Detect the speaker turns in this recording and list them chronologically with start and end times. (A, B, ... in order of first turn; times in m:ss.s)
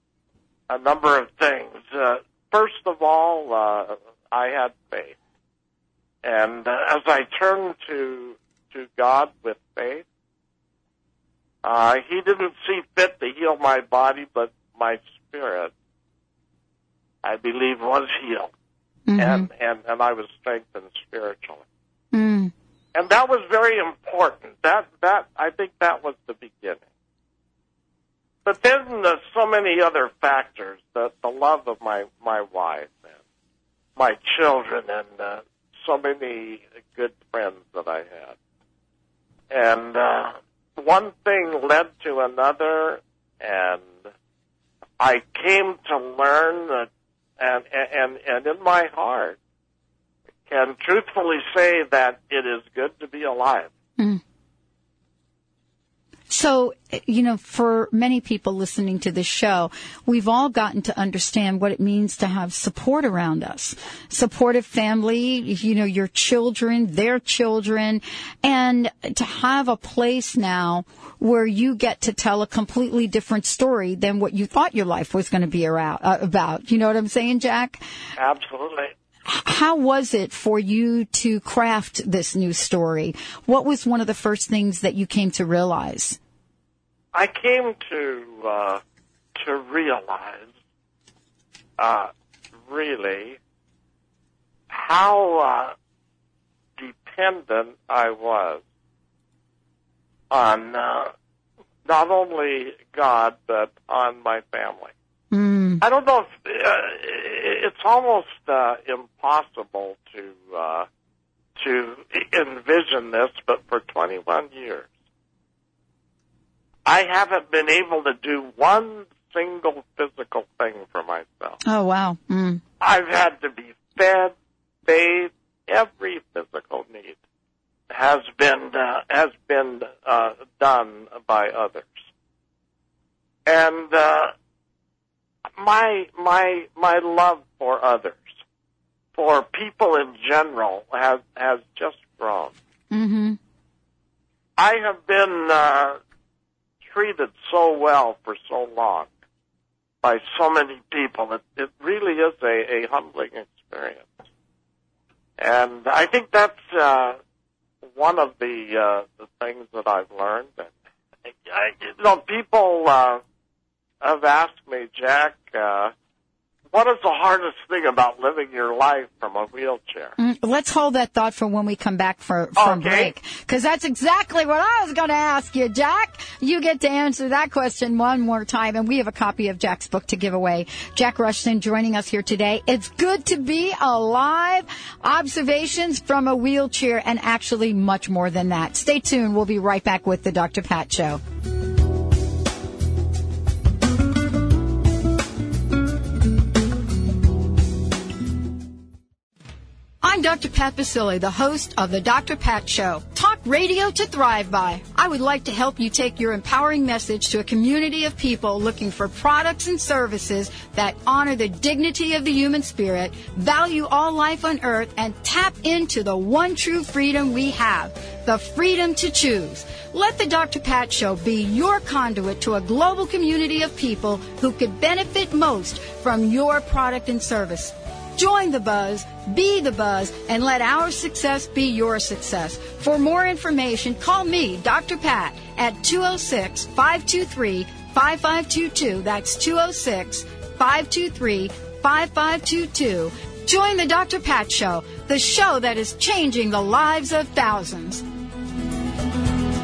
0:00.7-0:05.2 A
0:06.2-0:10.0 A
0:11.6-0:15.7 A
0:17.2-0:18.5 A
0:19.1-0:19.5 B
0:19.2-0:21.6 A
0:22.1-0:22.5 B
0:23.0-0:26.8 A
0:28.5-0:33.2 A
0:34.0-0:38.4 A
0:39.5-0:43.9 A
0:45.0-0:46.9 A
0:47.4-0:49.4 A
0:50.5-0:53.7 A
0:56.3-1:17.8 B
1:18.2-1:18.9 A
1:19.3-1:26.2 B
1:27.1-1:28.8 A
1:29.4-1:30.5 A
1:31.8-1:32.1 A
1:32.7-1:33.4 A
1:34.7-1:35.7 A
1:36.8-1:38.6 A
1:40.3-1:41.1 A
1:41.9-1:44.9 A
1:45.3-1:45.8 B
1:45.8-1:50.9 A
1:51.6-1:54.9 A
1:56.9-2:01.6 A
2:01.6-2:02.6 B
2:02.8-2:04.3 A
2:04.9-2:07.2 A
2:07.9-2:11.9 A
2:13.5-2:14.3 A
2:15.6-2:18.2 A
2:19.2-2:22.5 A
2:22.9-2:23.4 B
2:24.6-2:26.0 A
2:26.8-2:29.1 A
2:30.0-2:34.1 A
2:35.4-2:37.2 A
2:38.0-2:40.7 A
2:41.3-2:43.2 A
2:44.0-2:45.9 A
2:46.7-2:50.2 A
2:50.2-3:11.2 B
2:52.6-2:53.1 A
3:20.0-4:08.0 B